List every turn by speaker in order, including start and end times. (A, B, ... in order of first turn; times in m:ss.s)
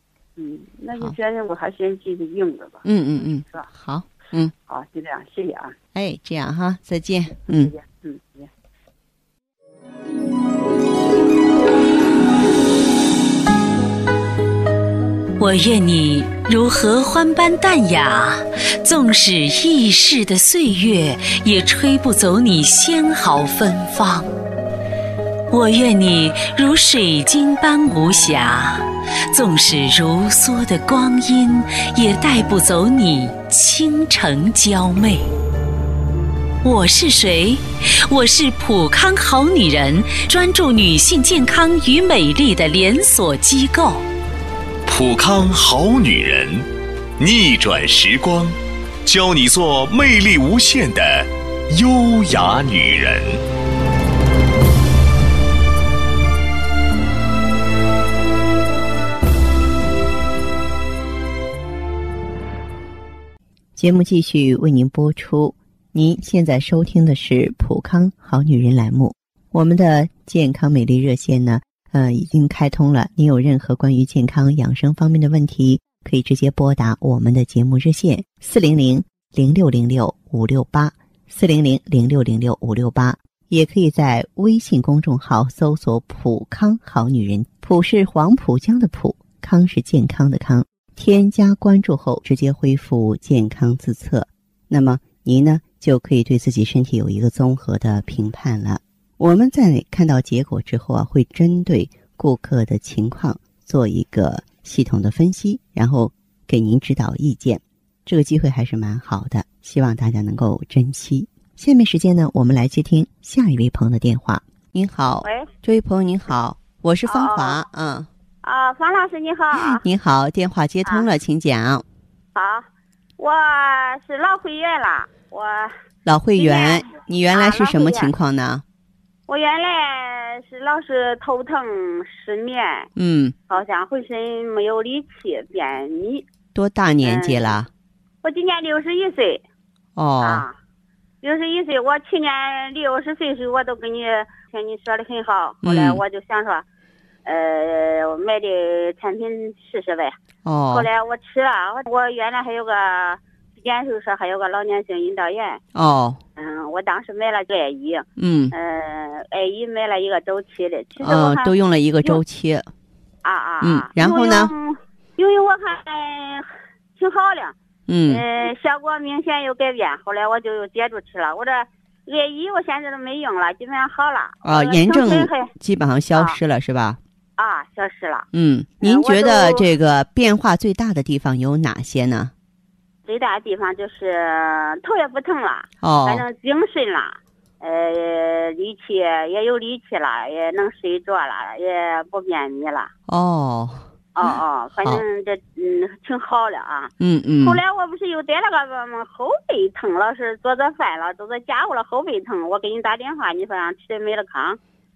0:00.4-0:02.8 A
0:02.8-0:04.5 B
0:04.7-0:05.7 A
0:05.9-0:07.8 B
0:07.5-0:08.5 A
0:15.4-0:24.3 C
0:25.5-0:35.3 C
0:36.6-0:44.0 C
0:44.8-0:53.4 D
1:03.8-1:58.1 B
1:55.2-1:55.5 E
1:57.1-1:57.6 E
1:58.4-1:59.8 E
1:59.5-2:01.8 B
2:02.3-2:05.8 E
2:06.0-2:08.6 B
2:06.4-2:08.1 E
2:09.3-2:12.9 E
2:13.0-2:13.3 B
2:13.5-2:16.2 E
2:16.5-2:17.7 B
2:17.0-2:17.6 E
2:18.2-2:19.4 E
2:20.0-2:20.4 B
2:20.2-2:20.5 E
2:21.2-2:26.6 E
2:25.6-2:26.0 B
2:27.2-2:30.2 E
2:30.4-2:30.9 B
2:30.7-2:35.6 E
2:35.7-2:36.2 B
2:36.4-2:41.5 E
2:38.2-2:38.5 B
2:41.0-2:42.7 B
2:43.2-2:47.5 E
2:43.6-2:44.5 B
2:47.9-2:48.2 B
2:48.1-2:55.5 E
2:54.4-2:57.0 B
2:57.4-2:58.3 E
2:58.3-3:02.3 B
2:58.8-2:59.6 E
3:03.0-3:12.9 E
3:05.8-3:06.2 B
3:13.1-3:15.0 B
3:14.2-3:24.6 E
3:17.0-3:17.6 B